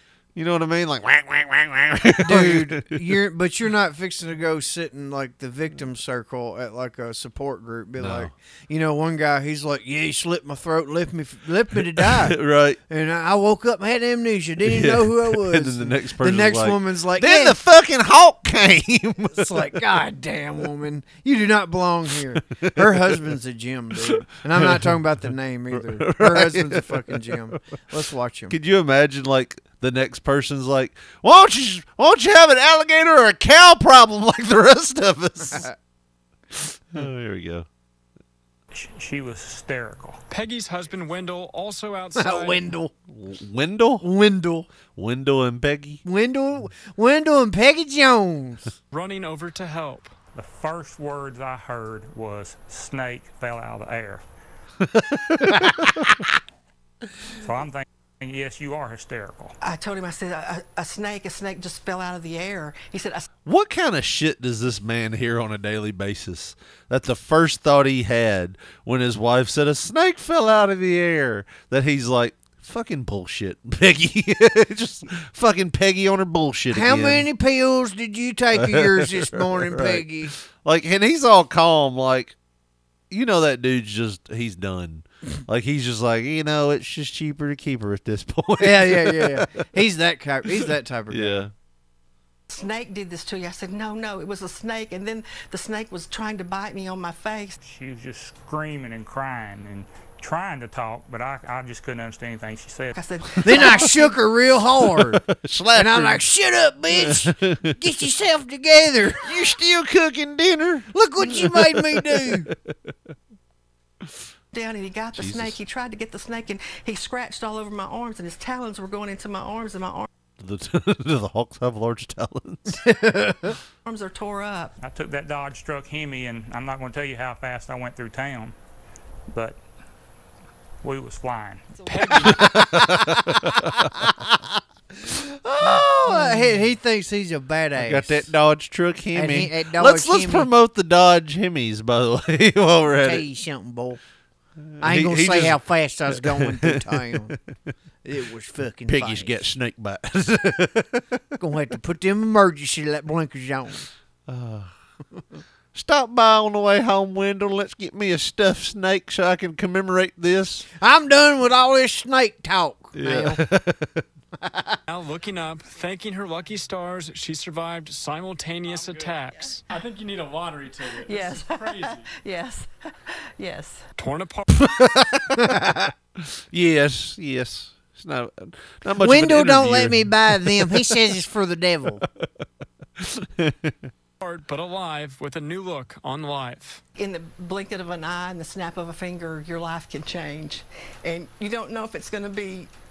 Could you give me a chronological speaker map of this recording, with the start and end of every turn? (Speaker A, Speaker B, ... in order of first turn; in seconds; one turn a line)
Speaker A: 0.3-3.0
Speaker B: 2.2-12.3
Speaker A: 8.0-8.3
Speaker A: 11.7-12.8
Speaker B: 12.9-17.6
Speaker A: 14.6-19.7
Speaker B: 19.4-28.5
Speaker A: 22.4-23.3
Speaker A: 24.0-25.0
Speaker A: 25.7-27.6
Speaker A: 28.5-35.7
Speaker B: 35.4-35.7
Speaker A: 36.9-37.7
Speaker C: 38.7-40.2
Speaker D: 40.3-42.6
Speaker B: 42.1-42.9
Speaker A: 43.1-44.0
Speaker B: 44.0-44.7
Speaker A: 44.9-46.0
Speaker B: 46.0-48.7
Speaker D: 48.9-50.1
Speaker C: 50.3-54.2
Speaker A: 54.8-56.3
Speaker C: 57.4-59.5
Speaker E: 59.6-63.2
Speaker A: 63.4-77.2
Speaker B: 76.7-80.3
Speaker A: 78.5-82.3
Speaker A: 83.1-89.4
Speaker B: 88.6-91.5
Speaker A: 91.1-91.5
Speaker E: 92.5-97.6
Speaker C: 97.6-103.0
Speaker E: 102.9-104.0
Speaker B: 103.4-105.2
Speaker A: 103.4-103.9
Speaker A: 104.8-106.2
Speaker B: 105.7-109.2
Speaker A: 106.9-107.8
Speaker A: 109.2-112.7
Speaker B: 110.9-112.5
Speaker E: 114.5-120.1
Speaker A: 115.2-115.6
Speaker A: 120.4-122.8
Speaker B: 122.7-123.6
Speaker E: 123.8-124.8
Speaker C: 124.8-128.5
Speaker C: 129.3-129.6
Speaker C: 130.8-131.8
Speaker D: 131.8-132.5
Speaker A: 132.2-134.1
Speaker B: 132.5-134.1
Speaker B: 135.1-138.3
Speaker A: 135.4-136.7
Speaker A: 137.8-143.2
Speaker B: 139.1-140.5
Speaker B: 143.0-144.0
Speaker A: 144.6-147.4
Speaker B: 144.8-147.3
Speaker B: 148.0-149.4
Speaker A: 148.9-151.2
Speaker B: 151.4-153.9
Speaker A: 154.3-154.7
Speaker A: 155.7-160.7
Speaker B: 160.8-163.4
Speaker A: 162.9-164.0
Speaker B: 164.4-164.8
Speaker D: 164.9-172.0
Speaker E: 171.1-173.8
Speaker D: 174.0-174.5
Speaker A: 174.6-175.5
Speaker B: 175.4-175.9
Speaker A: 176.2-181.0
Speaker B: 179.0-182.0
Speaker A: 182.0-182.3
Speaker A: 183.0-183.9
Speaker D: 184.2-186.8
Speaker E: 186.9-192.7